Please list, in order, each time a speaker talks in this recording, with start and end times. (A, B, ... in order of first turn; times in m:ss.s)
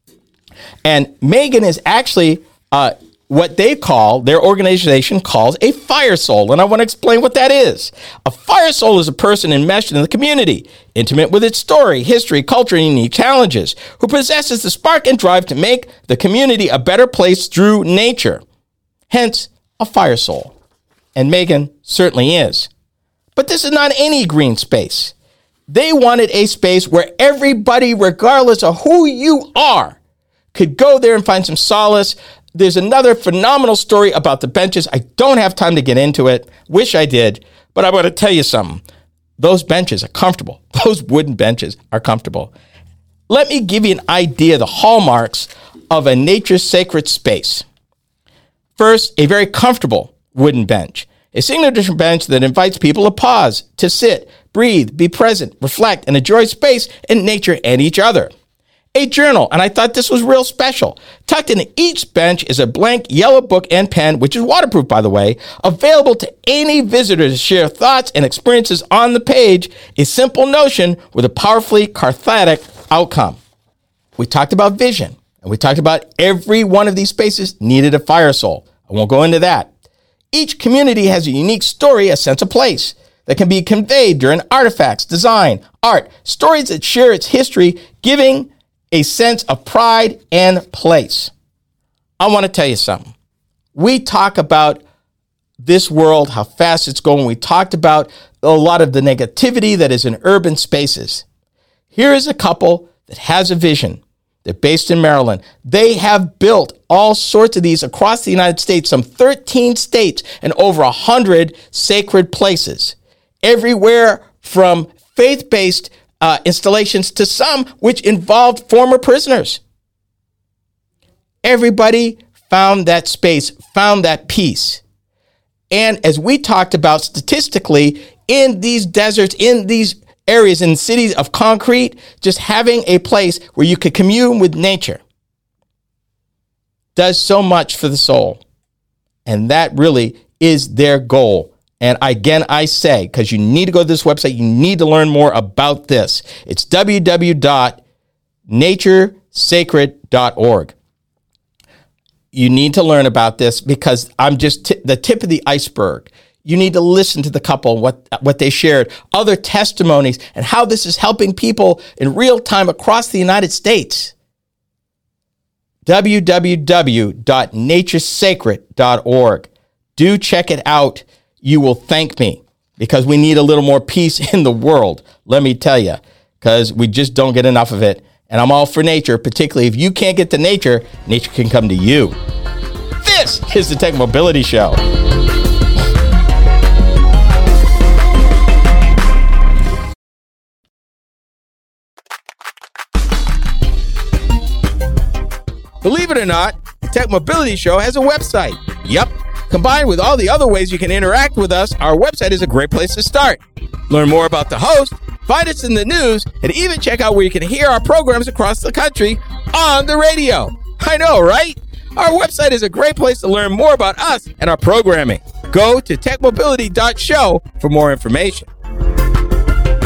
0:00.8-0:18.4 A
0:19.1-0:20.5 A
0:21.1-0:22.7 A
0:23.3-0:25.1 A
0:25.7-0:30.0 A
0:30.5-0:38.8 A
0:39.4-0:42.5 A
0:43.3-0:47.6 A
0:48.8-0:58.3 A
0:58.9-1:13.4 A
1:14.2-1:19.7 A
1:20.3-1:31.3 A
1:32.2-1:33.1 A
1:33.7-1:34.8 A
1:35.6-1:41.2 A
1:41.9-1:59.6 A
2:01.4-2:04.8 A
2:05.7-2:15.0 A
2:16.9-2:18.4 A
2:19.2-2:27.8 A
2:28.5-2:30.7 A
2:32.3-2:44.1 A
2:45.8-3:02.2 A
3:03.0-3:04.8 A
3:15.8-3:38.5 A